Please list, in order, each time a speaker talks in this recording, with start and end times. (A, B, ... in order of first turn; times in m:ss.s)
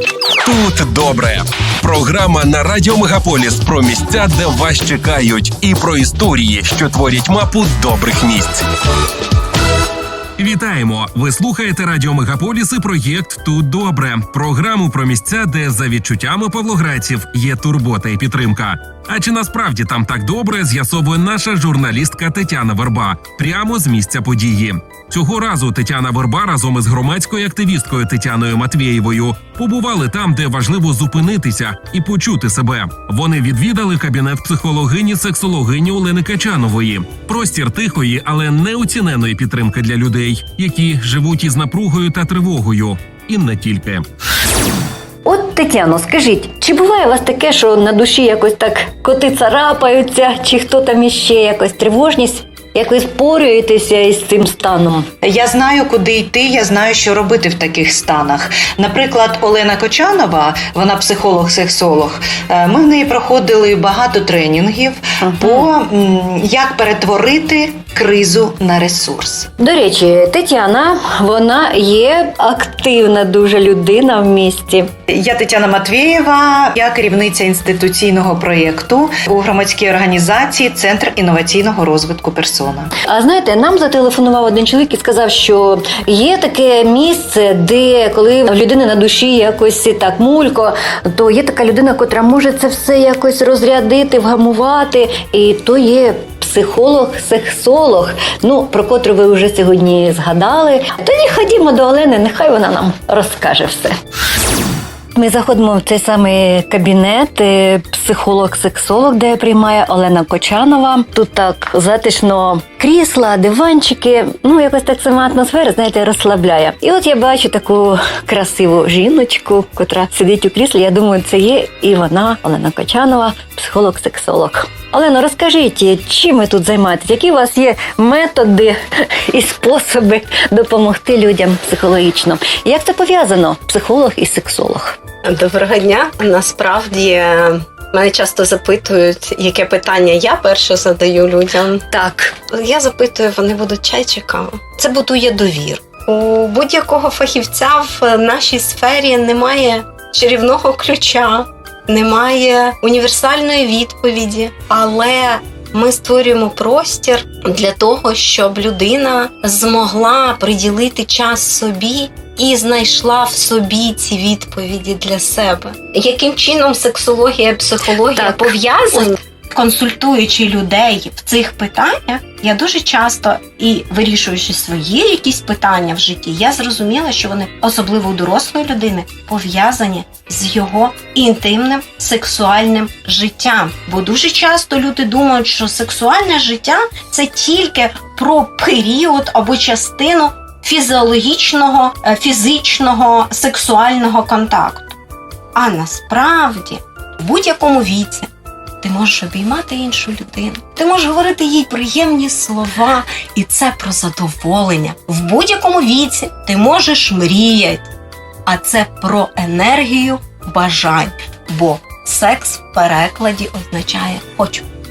0:00.4-0:08.6 A
0:10.4-0:44.0 A
0:45.2-0:55.1 B
0:55.2-1:09.5 C
1:05.2-1:05.7 B
1:09.6-1:14.9 B
1:15.1-1:22.9 C
1:23.1-1:44.0 B
1:45.1-2:08.8 B
2:09.3-2:15.0 B
2:15.2-2:21.8 D
2:21.9-2:22.3 B
2:22.5-3:15.0 D
2:48.1-2:49.1 B
3:15.6-3:18.3 D
3:18.8-3:27.9 D
3:28.5-3:34.7 D